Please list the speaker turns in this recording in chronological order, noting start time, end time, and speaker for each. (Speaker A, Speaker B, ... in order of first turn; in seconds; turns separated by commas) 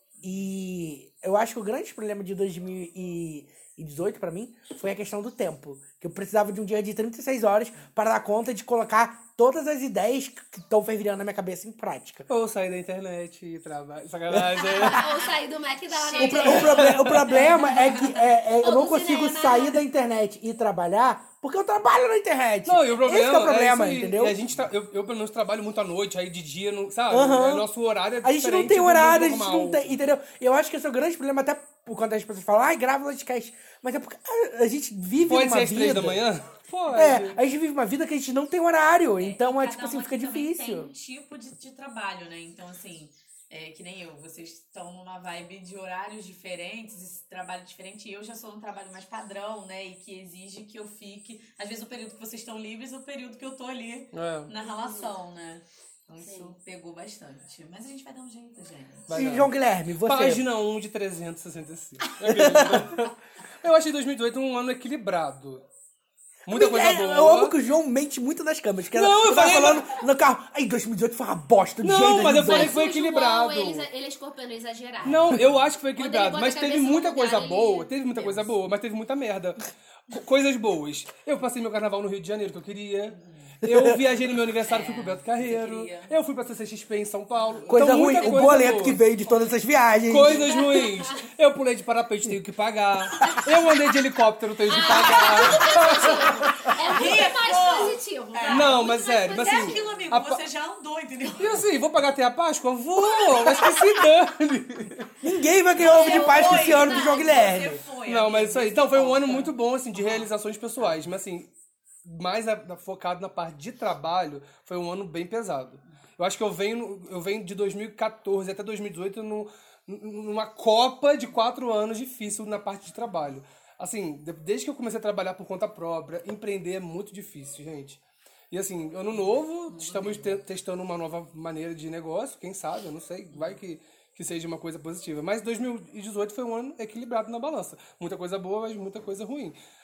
Speaker A: 0.2-12.3, Speaker B: 12.3-15.0, Speaker A: 14.3-14.6, Speaker C: 14.6-17.9, Speaker D: 14.8-15.2, Speaker D: 15.9-18.1, Speaker A: 16.2-24.4, Speaker B: 16.7-17.1, Speaker C: 18.6-19.8, Speaker B: 22.6-29.9, Speaker A: 27.1-27.7, Speaker A: 28.2-36.2, Speaker B: 35.2-37.4, Speaker A: 36.9-40.9, Speaker D: 39.2-59.2, Speaker B: 54.1-54.5, Speaker C: 54.6-55.1, Speaker C: 56.2-56.5, Speaker B: 59.1-65.6, Speaker A: 59.1-60.4, Speaker A: 62.2-63.0, Speaker B: 66.5-67.5, Speaker A: 66.5-72.8, Speaker B: 68.9-70.0, Speaker B: 71.8-73.8, Speaker C: 72.3-75.4, Speaker D: 75.0-75.6, Speaker B: 75.0-89.0, Speaker C: 76.0-77.9, Speaker D: 78.1-78.5, Speaker D: 83.1-83.6, Speaker A: 83.6-84.0, Speaker D: 84.6-86.2, Speaker D: 87.3-89.5, Speaker A: 87.7-90.6, Speaker B: 90.1-96.8, Speaker C: 90.3-91.2, Speaker C: 94.7-99.9, Speaker D: 94.8-101.6, Speaker B: 98.5-100.4, Speaker B: 101.4-105.1, Speaker A: 105.2-107.8, Speaker D: 105.7-111.0, Speaker C: 105.8-107.4, Speaker B: 108.0-111.5, Speaker B: 112.0-139.6, Speaker D: 129.7-130.4, Speaker D: 133.3-133.6